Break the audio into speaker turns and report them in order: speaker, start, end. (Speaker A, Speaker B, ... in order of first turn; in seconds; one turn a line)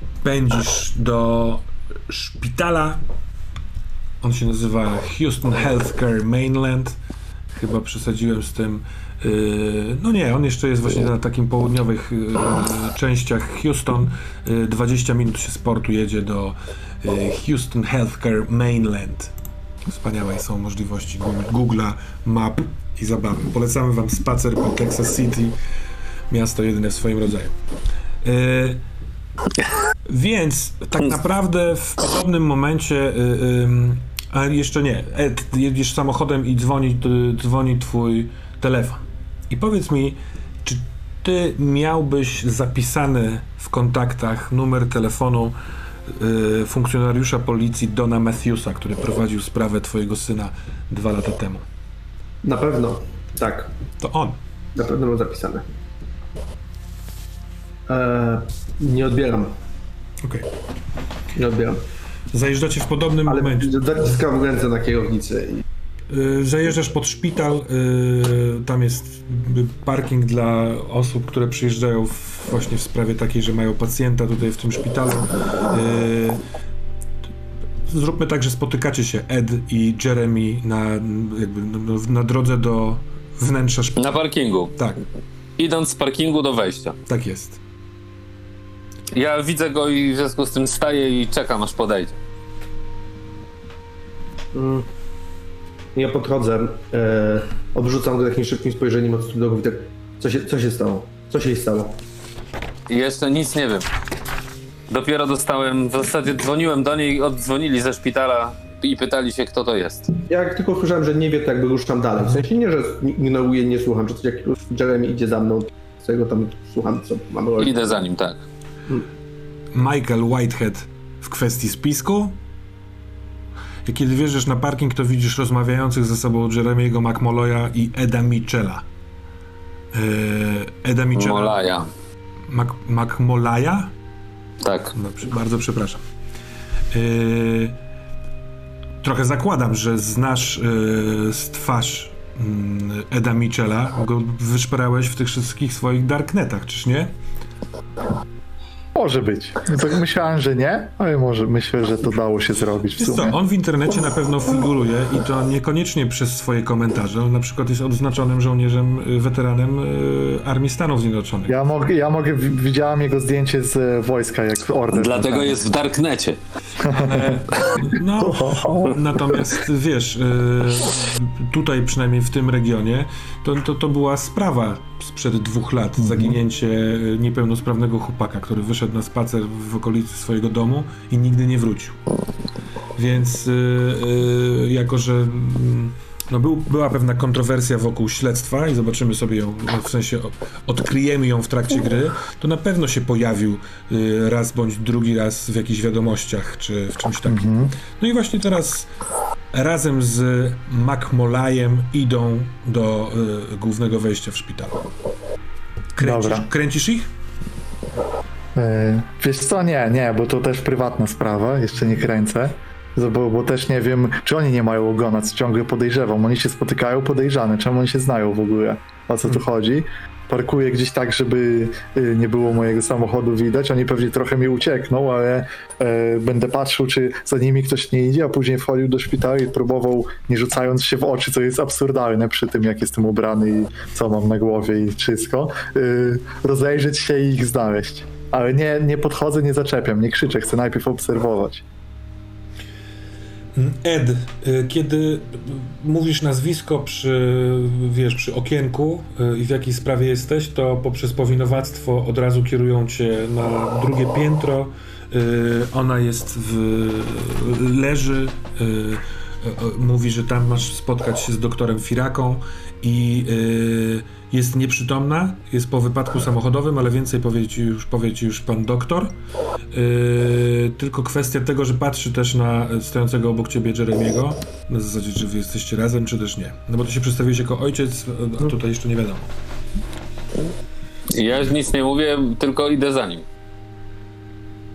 Speaker A: 0.2-3.0
Speaker A: 4.2-7.0
Speaker A: 7.5-19.3
Speaker A: 19.9-25.6
Speaker A: 26.3-27.5
Speaker A: 28.2-28.8
Speaker A: 30.1-45.6
Speaker A: 46.1-51.6
Speaker B: 52.4-53.7
Speaker A: 54.0-54.4
Speaker B: 54.8-55.7
Speaker B: 57.9-59.5
Speaker A: 60.2-60.5
Speaker B: 61.4-61.8
Speaker A: 62.3-64.2
Speaker B: 63.3-65.6
Speaker A: 66.1-76.4
Speaker A: 77.9-84.2
Speaker C: 84.0-84.7
Speaker A: 84.8-85.0
Speaker C: 85.6-87.0
Speaker A: 87.1-87.6
Speaker C: 89.1-92.2
Speaker B: 94.5-94.9
Speaker B: 96.0-102.0
Speaker C: 102.9-103.9
Speaker C: 104.9-110.1
Speaker B: 110.3-117.8
Speaker C: 117.6-118.4
Speaker A: 119.7-122.4
Speaker A: 123.9-128.9
Speaker A: 129.9-131.6
Speaker C: 131.1-131.9
Speaker A: 132.5-133.9
Speaker C: 134.6-134.9
Speaker A: 134.9-136.0
Speaker A: 136.9-137.8
Speaker A: 139.0-147.1
Speaker D: 148.9-153.3
Speaker A: 153.0-161.6
Speaker D: 161.5-165.6
Speaker C: 164.9-166.4
Speaker D: 166.8-167.4
Speaker A: 166.9-182.0
Speaker D: 168.2-169.1
Speaker A: 183.0-198.9
Speaker D: 197.3-197.8
Speaker A: 199.5-204.9
Speaker A: 205.9-207.1
Speaker D: 206.0-206.5
Speaker D: 208.6-241.7
Speaker A: 243.6-269.1
Speaker A: 269.7-279.3
Speaker C: 281.1-283.2